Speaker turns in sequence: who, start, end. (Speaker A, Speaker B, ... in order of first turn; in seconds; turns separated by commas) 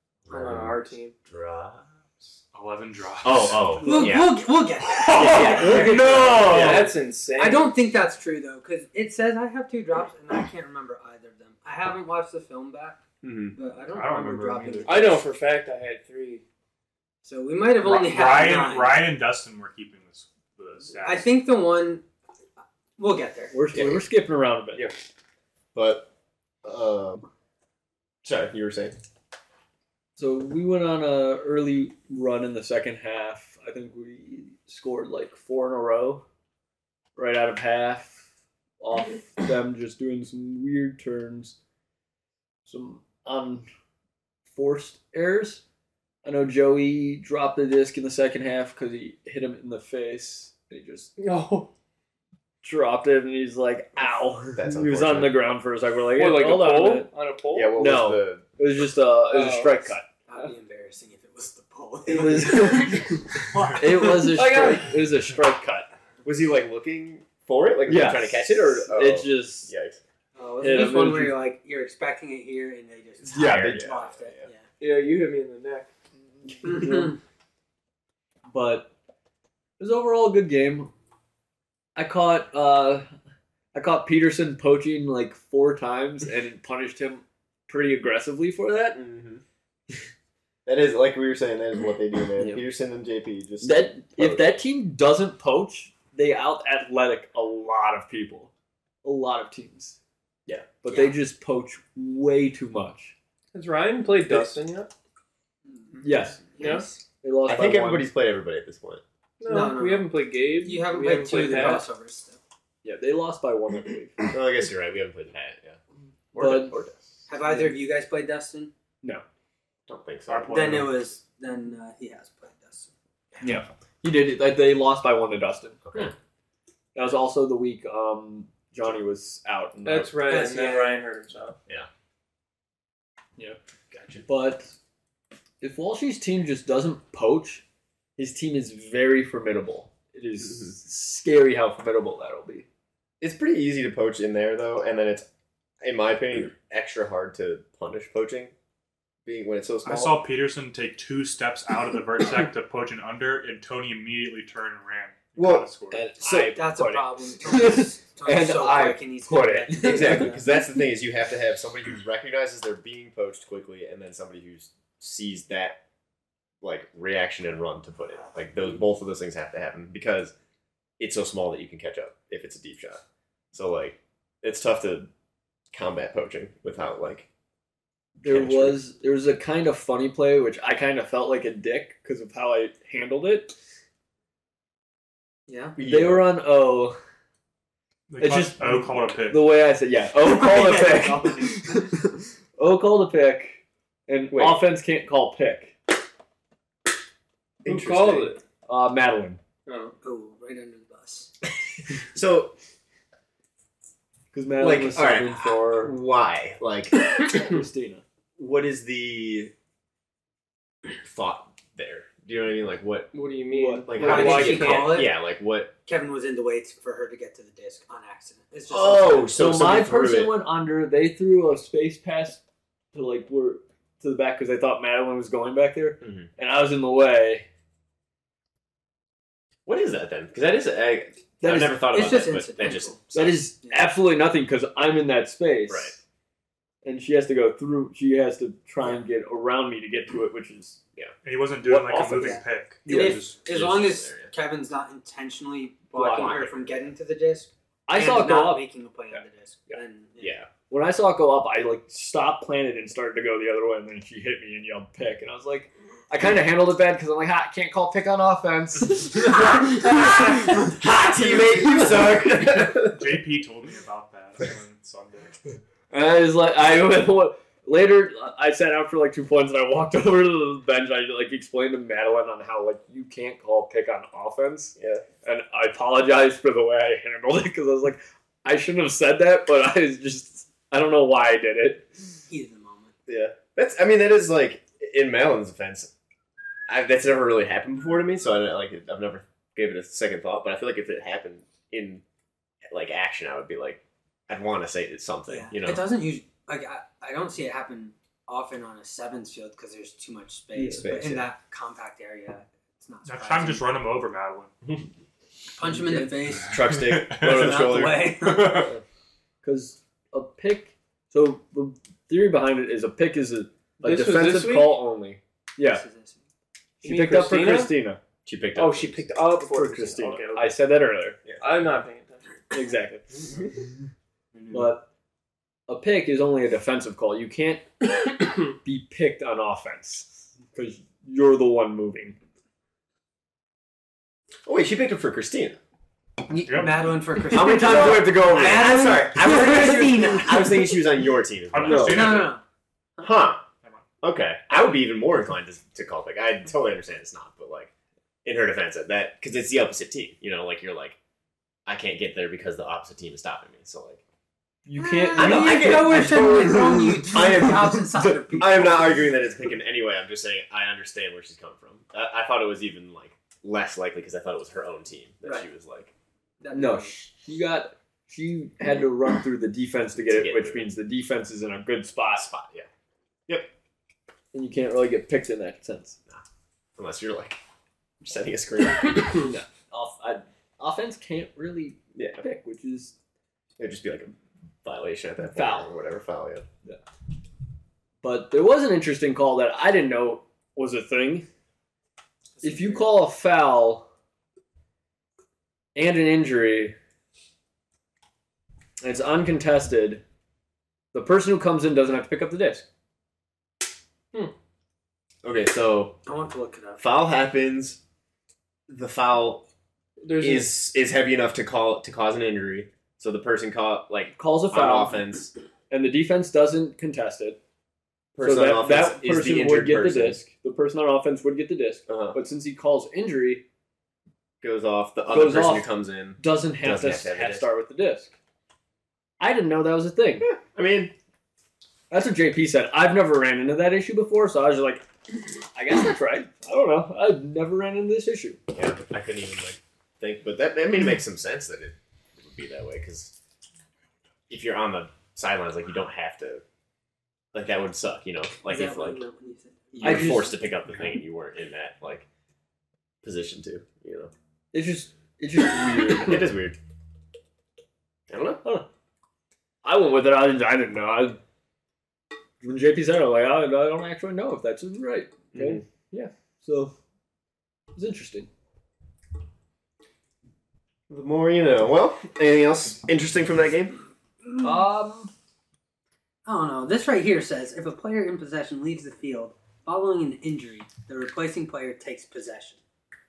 Speaker A: 0.3-1.9, Speaker B: 0.3-1.1, Speaker C: 2.5-4.0, Speaker A: 3.2-4.4, Speaker D: 3.8-6.5, Speaker C: 4.9-6.9, Speaker A: 5.1-6.9, Speaker E: 5.6-6.2, Speaker B: 6.5-7.7, Speaker D: 7.3-13.0, Speaker A: 13.2-13.6, Speaker D: 13.5-15.2, Speaker C: 13.9-15.1, Speaker B: 14.8-16.4, Speaker D: 17.2-19.1, Speaker C: 17.8-21.2, Speaker D: 21.0-22.0, Speaker D: 23.0-23.5, Speaker E: 23.5-24.9, Speaker A: 23.7-24.0, Speaker A: 25.7-26.1, Speaker A: 26.6-27.2, Speaker A: 28.2-29.0, Speaker E: 30.2-36.2, Speaker E: 37.1-38.2, Speaker E: 38.8-41.5, Speaker E: 42.6-43.6, Speaker E: 44.5-45.6, Speaker E: 46.2-51.1, Speaker B: 51.2-51.7, Speaker E: 52.6-57.1, Speaker A: 54.5-55.4, Speaker B: 56.1-57.7, Speaker A: 57.5-58.4, Speaker E: 57.8-60.0, Speaker B: 59.3-60.4, Speaker D: 60.3-63.7, Speaker E: 62.0-65.9, Speaker B: 64.3-65.0, Speaker A: 66.2-70.0, Speaker E: 67.9-69.7, Speaker D: 70.3-74.7, Speaker E: 70.6-71.4, Speaker A: 73.2-74.5, Speaker E: 73.3-73.8, Speaker B: 74.8-75.9, Speaker E: 76.5-77.1, Speaker E: 78.5-78.9, Speaker E: 79.8-80.9, Speaker E: 82.0-83.1, Speaker E: 83.7-89.0, Speaker A: 88.9-89.4, Speaker A: 90.7-94.5, Speaker E: 93.6-98.5, Speaker E: 99.0-100.0, Speaker E: 100.8-103.1, Speaker D: 100.9-101.1, Speaker B: 103.5-104.9, Speaker D: 105.8-107.0, Speaker E: 106.0-106.5, Speaker B: 106.6-106.9, Speaker E: 107.2-108.1, Speaker A: 107.5-109.0, Speaker B: 109.4-111.8, Speaker D: 109.5-112.4, Speaker E: 111.2-111.8, Speaker E: 112.8-114.2, Speaker A: 114.3-115.8, Speaker A: 116.3-117.0, Speaker E: 116.3-116.8, Speaker D: 117.3-118.7, Speaker E: 117.4-117.7, Speaker A: 119.9-120.7, Speaker C: 120.3-121.0, Speaker D: 120.5-122.9, Speaker E: 123.4-125.8, Speaker A: 125.8-126.1, Speaker E: 126.9-130.1, Speaker B: 129.8-131.6, Speaker D: 130.3-131.0, Speaker A: 133.9-134.2, Speaker E: 134.2-134.7, Speaker E: 135.6-137.6, Speaker E: 138.2-142.7, Speaker A: 143.2-145.3, Speaker A: 145.8-148.5, Speaker A: 149.2-150.2, Speaker C: 149.8-156.0, Speaker A: 155.4-156.6, Speaker E: 155.9-160.3, Speaker D: 156.4-160.4, Speaker A: 159.8-165.8, Speaker A: 166.6-170.3, Speaker A: 171.0-173.0, Speaker A: 173.5-175.1, Speaker A: 175.7-177.3, Speaker E: 178.2-183.5, Speaker A: 178.2-178.8, Speaker D: 185.5-185.8, Speaker A: 185.8-186.3, Speaker E: 185.8-187.0, Speaker C: 188.1-189.5, Speaker E: 188.2-195.8, Speaker D: 190.3-191.9, Speaker A: 194.3-194.6, Speaker A: 197.6-198.3, Speaker B: 197.6-198.4, Speaker E: 198.7-199.4, Speaker B: 199.7-199.9, Speaker D: 200.0-201.3, Speaker A: 202.0-202.6, Speaker E: 204.3-205.9, Speaker A: 204.6-207.2, Speaker E: 207.3-208.0, Speaker A: 208.4-209.5, Speaker A: 211.0-213.1, Speaker B: 213.1-215.1, Speaker E: 213.5-214.4, Speaker A: 213.9-215.7, Speaker D: 214.0-215.1, Speaker D: 215.8-219.4, Speaker A: 218.7-220.3, Speaker E: 219.3-222.4, Speaker E: 222.9-227.4, Speaker A: 226.0-226.3, Speaker A: 229.7-233.5, Speaker E: 231.4-231.9, Speaker D: 231.8-233.0, Speaker E: 233.1-236.0, Speaker D: 233.6-233.9, Speaker A: 235.7-236.0, Speaker E: 236.8-240.8, Speaker C: 241.2-243.4, Speaker E: 241.6-243.2, Speaker D: 242.1-250.3, Speaker A: 243.4-244.3, Speaker E: 245.9-246.4, Speaker A: 246.0-246.7, Speaker E: 247.9-249.8, Speaker A: 250.2-250.5, Speaker E: 250.7-260.8, Speaker A: 260.6-263.1, Speaker E: 261.3-261.9, Speaker C: 262.8-265.4, Speaker E: 265.9-282.2, Speaker A: 274.8-275.0, Speaker D: 282.3-282.9, Speaker A: 283.1-285.9, Speaker A: 286.7-292.0, Speaker A: 292.7-295.9, Speaker D: 295.3-303.6, Speaker E: 300.5-300.8, Speaker A: 300.7-301.3, Speaker C: 303.0-304.5, Speaker D: 305.5-306.6, Speaker E: 305.6-306.1, Speaker C: 306.5-307.6, Speaker A: 306.5-308.4, Speaker D: 307.2-308.7, Speaker C: 308.2-308.7, Speaker E: 309.4-315.8, Speaker B: 313.8-314.8, Speaker D: 315.6-316.2, Speaker B: 316.8-317.7, Speaker E: 316.8-318.0, Speaker A: 318.2-319.1, Speaker B: 318.6-320.6, Speaker E: 319.4-321.2, Speaker B: 321.4-322.4, Speaker E: 322.5-323.3, Speaker C: 324.3-324.7, Speaker E: 324.5-324.9, Speaker E: 325.7-327.7, Speaker E: 328.5-332.2, Speaker A: 334.4-335.6, Speaker D: 336.3-340.8, Speaker C: 336.4-336.9, Speaker A: 337.3-342.3, Speaker E: 338.3-338.8, Speaker C: 341.5-342.4, Speaker E: 341.6-342.1, Speaker D: 341.9-342.4, Speaker A: 343.0-343.4, Speaker A: 344.0-347.7, Speaker A: 348.2-351.0, Speaker A: 351.6-354.0, Speaker E: 354.6-357.3, Speaker D: 354.8-359.1, Speaker A: 355.1-365.9, Speaker D: 366.4-367.0, Speaker E: 366.5-372.3, Speaker A: 370.1-370.7, Speaker A: 372.1-372.7, Speaker E: 374.3-376.0, Speaker A: 376.8-377.4, Speaker A: 378.0-379.2, Speaker E: 379.2-382.9, Speaker A: 381.9-382.2, Speaker A: 383.6-386.5, Speaker E: 385.3-385.7, Speaker E: 388.0-391.2, Speaker D: 392.4-392.8, Speaker E: 392.4-393.9, Speaker E: 395.7-396.7, Speaker E: 398.8-400.0, Speaker E: 400.9-402.6, Speaker A: 405.2-406.0, Speaker D: 406.1-406.9, Speaker A: 406.8-407.8, Speaker A: 408.7-409.4, Speaker B: 410.0-410.5, Speaker A: 410.2-415.3, Speaker E: 414.1-415.0, Speaker E: 415.7-417.4, Speaker A: 418.1-420.2, Speaker E: 418.2-423.4, Speaker A: 421.9-422.2, Speaker A: 424.4-427.5, Speaker E: 425.1-428.1, Speaker E: 429.2-430.3, Speaker A: 430.2-430.9, Speaker E: 431.9-434.9, Speaker E: 435.5-438.4, Speaker A: 438.5-443.1, Speaker A: 444.3-446.4, Speaker A: 447.3-449.0, Speaker D: 448.4-450.3, Speaker A: 449.8-452.1, Speaker E: 449.8-450.3, Speaker A: 453.0-454.1, Speaker E: 454.5-456.3, Speaker A: 456.0-456.6, Speaker A: 458.1-458.4, Speaker E: 459.6-461.2, Speaker E: 462.4-466.7, Speaker A: 465.3-465.6, Speaker E: 467.7-468.3, Speaker A: 470.9-473.8, Speaker E: 474.4-475.1, Speaker D: 476.2-482.6